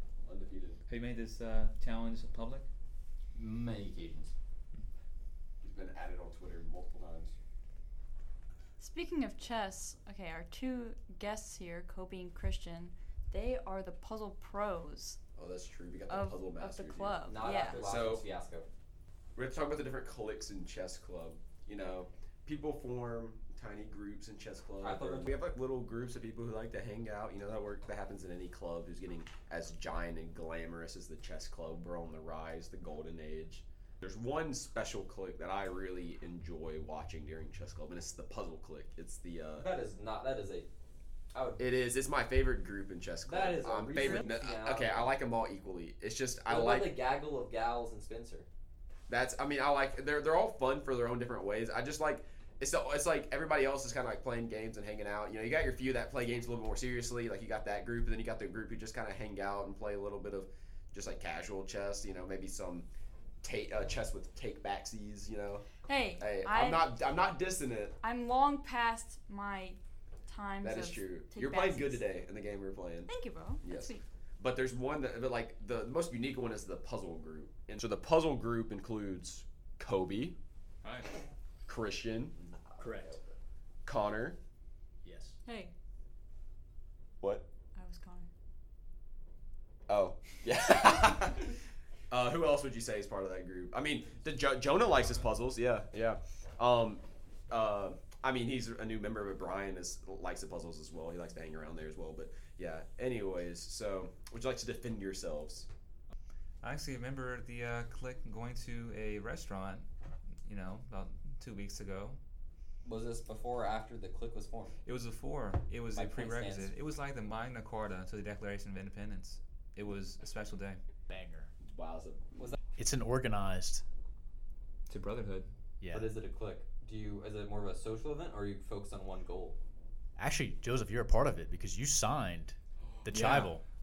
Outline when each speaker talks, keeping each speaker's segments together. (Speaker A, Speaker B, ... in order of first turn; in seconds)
Speaker A: 0.2-0.8, 5.6-7.3, 15.4-18.2, 19.4-39.7, 41.6-47.0, 49.1-62.9, 63.4-67.9, 70.6-73.1, 73.6-80.4, 81.7-82.4, 83.8-84.4, 87.2-87.5, 89.9-91.5, 92.1-105.7, 121.6-122.3, 132.8-133.1
Speaker B: 0.9-2.6, 80.8-81.1, 106.6-109.9, 110.4-112.2, 114.8-120.8, 124.9-125.5, 133.1-133.5
Speaker C: 3.3-4.3, 17.2-18.7, 24.8-25.3, 39.6-40.7, 41.3-41.6, 43.2-45.1, 46.5-48.5, 82.7-83.3, 112.8-114.8, 115.9-116.7, 125.9-129.6
Speaker D: 8.8-15.2, 16.1-17.8, 65.8-66.9, 68.0-72.0, 73.0-74.0, 85.4-85.7, 87.7-88.3
Speaker E: 82.8-83.1, 85.0-85.4, 121.1-121.5, 122.8-123.8, 125.8-126.1, 130.2-133.6